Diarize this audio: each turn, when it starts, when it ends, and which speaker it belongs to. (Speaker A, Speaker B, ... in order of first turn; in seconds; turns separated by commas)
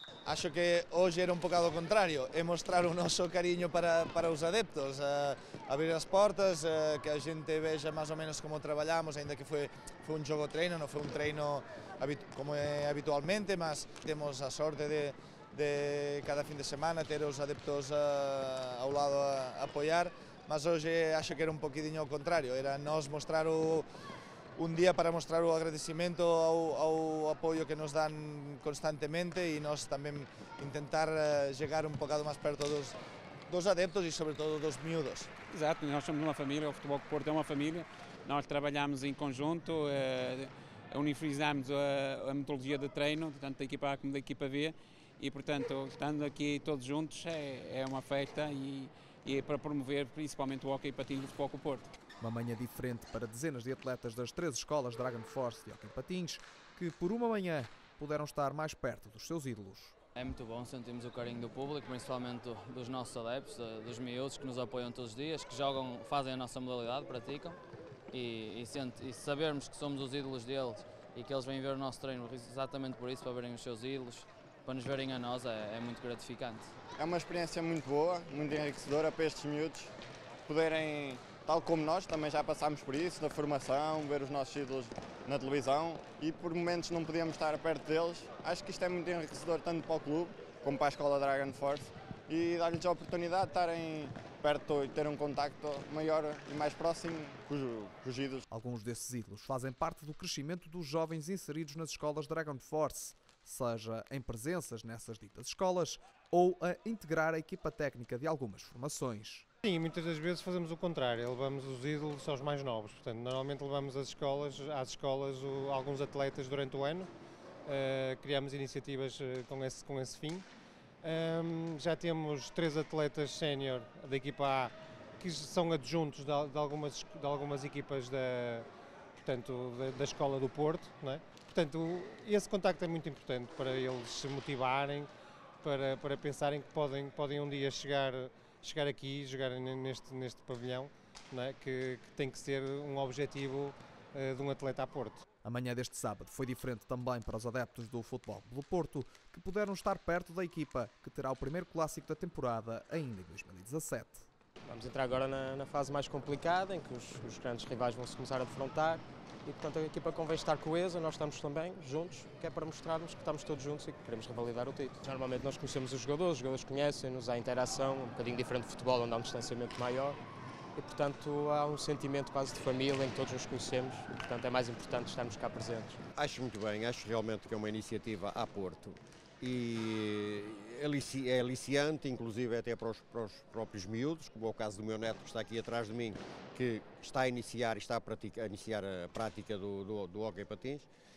Speaker A: 0.2-23.9, Speaker A: 24.6-33.0, Speaker A: 33.5-35.3, Speaker B: 35.5-51.9, Speaker C: 52.2-60.0, Speaker D: 60.1-67.6, Speaker D: 68.1-76.7, Speaker E: 77.0-79.9, Speaker E: 80.5-98.4, Speaker C: 98.5-109.5, Speaker F: 109.6-117.1, Speaker F: 117.7-120.4, Speaker F: 121.0-128.7, Speaker F: 129.2-135.1, Speaker F: 135.6-145.2, Speaker C: 145.4-154.3, Speaker G: 154.7-170.2, Speaker G: 170.8-176.0, Speaker H: 176.2-190.9